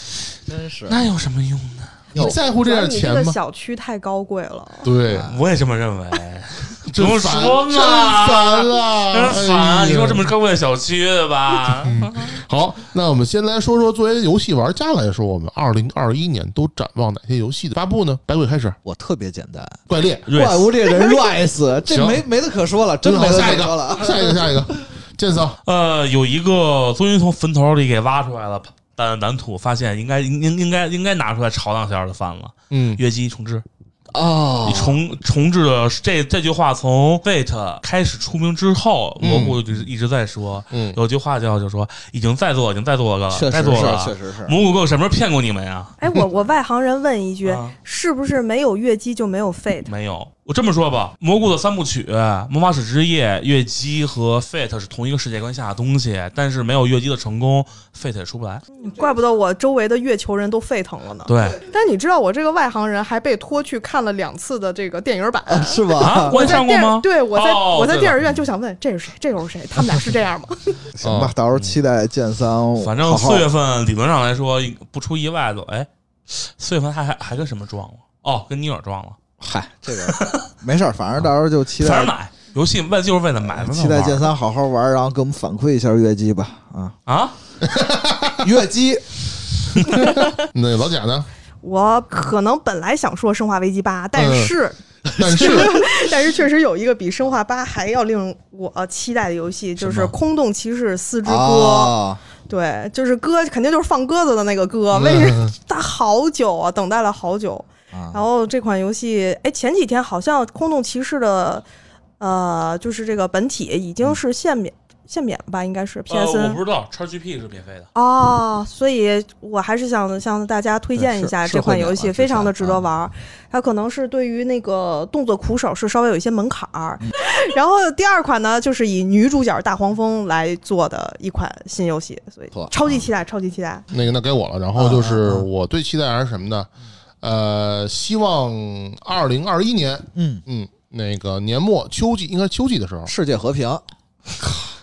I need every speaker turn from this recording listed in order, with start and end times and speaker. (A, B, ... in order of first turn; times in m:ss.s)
0:00.4-0:01.1 A
0:00.9-0:02.1 B
0:02.1-0:03.4 C
0:02.1-0:04.9 D
0:04.8-0:05.3 C
0:05.1-0:05.4 A
0:05.2-0:12.3 B
0:06.9-0:10.3 C
0:11.8-0:18.8 C
0:18.8-0:24.7 A
0:19.9-0:20.3 C
0:20.3-0:20.7 B
0:21.9-0:22.2 C
0:23.0-0:25.6 C
0:25.6-0:33.6 B
0:32.7-0:33.0 C
0:34.1-0:35.0 A
0:34.6-0:45.9 B
0:39.2-0:39.6 C
0:40.7-0:41.0 C
0:43.3-0:44.6 A
0:46.0-0:49.9 D
0:47.4-0:47.7 B
0:49.9-0:58.6 B
0:58.8-1:10.8 D
1:01.2-1:01.6 B
1:05.5-1:06.5 A
1:06.0-1:08.2 B
1:10.9-1:13.5 A
1:11.0-1:11.3 C
1:12.8-1:19.2 B
1:19.4-1:22.1 A
1:20.0-1:20.5 B
1:21.8-1:24.3 B
1:23.5-1:26.9 A
1:27.0-1:27.3 B
1:27.6-1:28.5 C
1:28.4-1:29.0 A
1:29.8-1:31.3 C
1:31.6-1:41.9 D
1:34.2-1:34.5 C
1:35.1-1:35.8 A
1:35.1-1:35.9 C
1:41.2-1:42.2 A
1:42.5-1:51.6 D
1:44.9-1:45.5 C
1:47.9-1:48.2 A
1:52.2-1:56.6 D
1:56.1-1:57.9 B
1:57.9-2:13.8 D
2:01.0-2:02.8 A
2:12.5-2:13.1 A
2:13.9-2:16.7 C
2:14.7-2:15.5 A
2:17.2-2:23.1 C
2:20.1-2:20.4 A
2:23.0-2:23.8 A